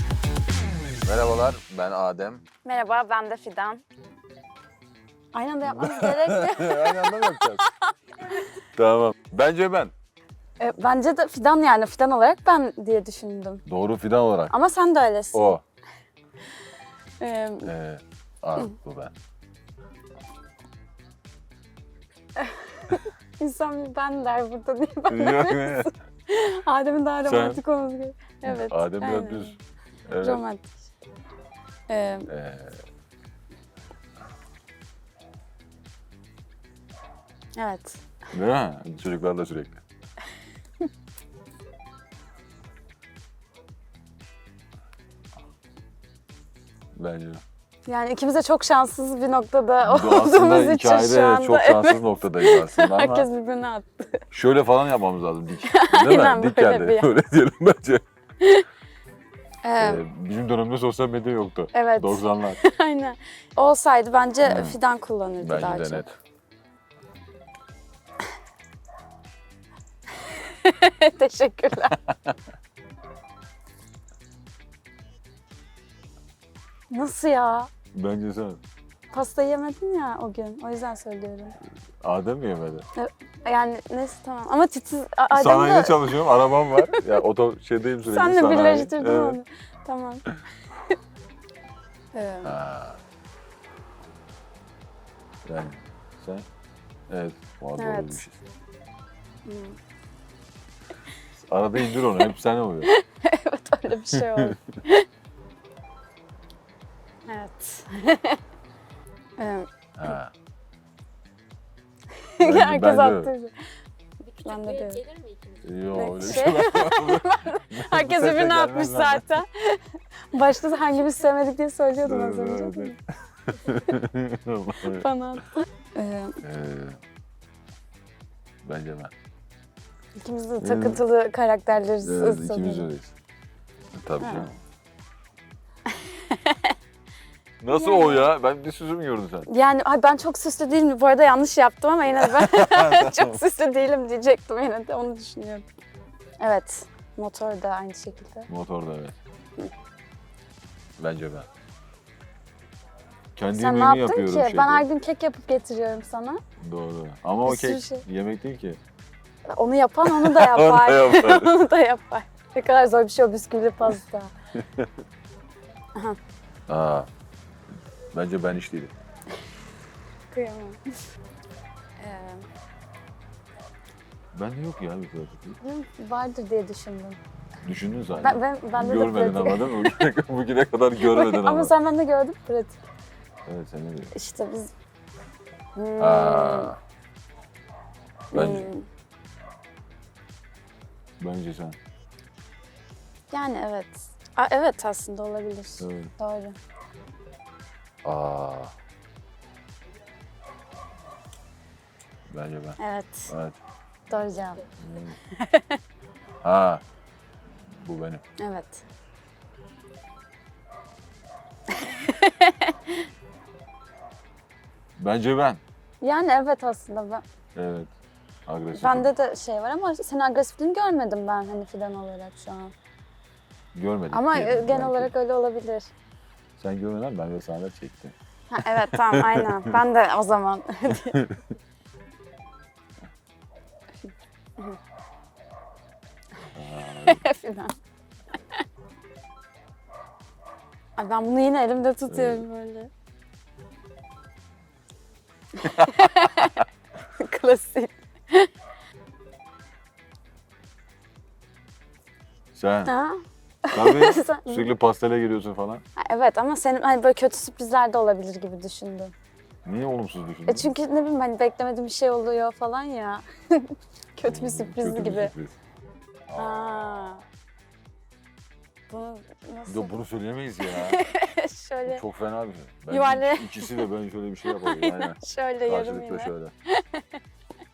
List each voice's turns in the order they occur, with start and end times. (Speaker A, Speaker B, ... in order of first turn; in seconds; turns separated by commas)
Speaker A: 1.0-2.4, Speaker B: 2.6-3.8, Speaker B: 5.3-8.5, Speaker A: 5.7-7.6, Speaker A: 8.7-9.9, Speaker B: 10.6-13.6, Speaker A: 13.7-14.5, Speaker B: 14.5-15.6, Speaker A: 15.3-15.6, Speaker B: 17.2-17.7, Speaker A: 17.6-19.1, Speaker B: 22.4-29.6, Speaker A: 25.1-25.9, Speaker A: 27.2-27.6, Speaker A: 28.4-29.6, Speaker A: 30.1-30.4, Speaker B: 30.2-30.8, Speaker B: 31.9-32.3, Speaker A: 32.3-32.8, Speaker B: 37.5-38.0, Speaker A: 38.3-39.8, Speaker A: 46.9-47.4, Speaker B: 47.9-54.2, Speaker A: 49.8-53.3, Speaker A: 54.3-58.0, Speaker B: 55.6-57.1, Speaker B: 58.4-58.6, Speaker B: 59.6-60.0, Speaker A: 59.8-62.6, Speaker B: 61.7-66.0, Speaker A: 64.4-64.8, Speaker A: 65.4-66.2, Speaker B: 70.2-72.0, Speaker A: 72.1-72.3, Speaker B: 76.9-77.7, Speaker A: 77.9-78.6, Speaker B: 79.1-81.5, Speaker A: 82.0-82.8, Speaker B: 83.0-86.1, Speaker A: 85.3-89.4, Speaker B: 88.1-90.2, Speaker B: 92.1-92.6, Speaker A: 92.4-93.0, Speaker A: 95.4-96.5, Speaker A: 97.1-98.4, Speaker B: 97.8-98.2, Speaker B: 99.5-99.8, Speaker A: 101.4-102.9, Speaker B: 101.8-102.3, Speaker B: 102.8-105.0, Speaker A: 104.1-104.5, Speaker B: 107.3-108.4, Speaker B: 109.4-110.1, Speaker A: 110.0-110.3, Speaker B: 112.2-113.5, Speaker A: 112.4-113.3, Speaker B: 114.3-115.1, Speaker A: 115.6-119.3, Speaker B: 115.9-123.0, Speaker A: 122.0-125.1, Speaker B: 124.8-126.4, Speaker A: 126.4-127.0, Speaker A: 128.6-129.1, Speaker B: 130.2-132.9, Speaker A: 130.6-131.0, Speaker A: 132.0-133.1, Speaker A: 133.9-134.5, Speaker B: 134.2-134.5, Speaker B: 135.9-136.7, Speaker A: 137.6-139.5, Speaker B: 137.7-138.3, Speaker B: 139.5-145.7, Speaker A: 142.1-143.4, Speaker B: 146.4-148.5, Speaker A: 148.5-149.1, Speaker A: 151.0-151.5, Speaker A: 153.3-154.8, Speaker B: 153.5-156.4, Speaker A: 156.6-158.8, Speaker B: 157.4-158.0, Speaker B: 159.5-164.3, Speaker A: 160.0-161.5, Speaker A: 164.6-164.9, Speaker A: 166.7-167.1, Speaker A: 168.1-168.9, Speaker B: 170.3-170.8, Speaker B: 172.0-172.5, Speaker A: 174.3-175.6, Speaker B: 175.6-177.2, Speaker A: 177.6-181.7, Speaker B: 178.2-180.1, Speaker B: 181.0-182.8, Speaker A: 183.5-184.1, Speaker B: 184.1-184.7, Speaker B: 185.8-186.7, Speaker A: 186.0-186.8, Speaker B: 188.3-188.8, Speaker A: 188.3-188.7, Speaker A: 191.2-191.8, Speaker B: 193.3-196.6, Speaker A: 195.8-196.1, Speaker A: 198.0-198.7, Speaker A: 202.3-202.8, Speaker B: 202.8-203.3, Speaker A: 203.3-203.6, Speaker B: 204.1-204.6, Speaker A: 204.8-205.2, Speaker B: 205.3-205.8, Speaker A: 206.4-206.8, Speaker A: 207.7-208.2, Speaker B: 208.4-208.8, Speaker B: 211.7-213.0, Speaker A: 214.9-215.6, Speaker B: 216.0-217.2, Speaker A: 217.5-217.9, Speaker A: 218.4-219.1, Speaker B: 218.7-222.7, Speaker A: 223.7-225.1, Speaker B: 224.1-225.9, Speaker A: 226.6-229.7, Speaker B: 228.5-231.2, Speaker A: 231.1-231.4, Speaker B: 234.0-234.8, Speaker A: 236.5-237.2, Speaker B: 237.0-237.8, Speaker B: 241.0-242.9, Speaker A: 242.1-242.5, Speaker B: 245.6-246.6, Speaker A: 245.6-246.5, Speaker B: 247.2-248.5, Speaker A: 252.5-252.9, Speaker B: 252.9-254.7, Speaker A: 253.7-255.8, Speaker B: 256.0-259.1, Speaker A: 259.6-260.7, Speaker B: 260.5-265.3, Speaker A: 264.2-265.5, Speaker A: 266.3-266.8, Speaker B: 266.4-267.2, Speaker B: 268.9-270.0, Speaker A: 269.7-271.0, Speaker B: 270.6-272.0, Speaker A: 271.9-276.5, Speaker B: 272.9-273.9, Speaker B: 274.5-277.2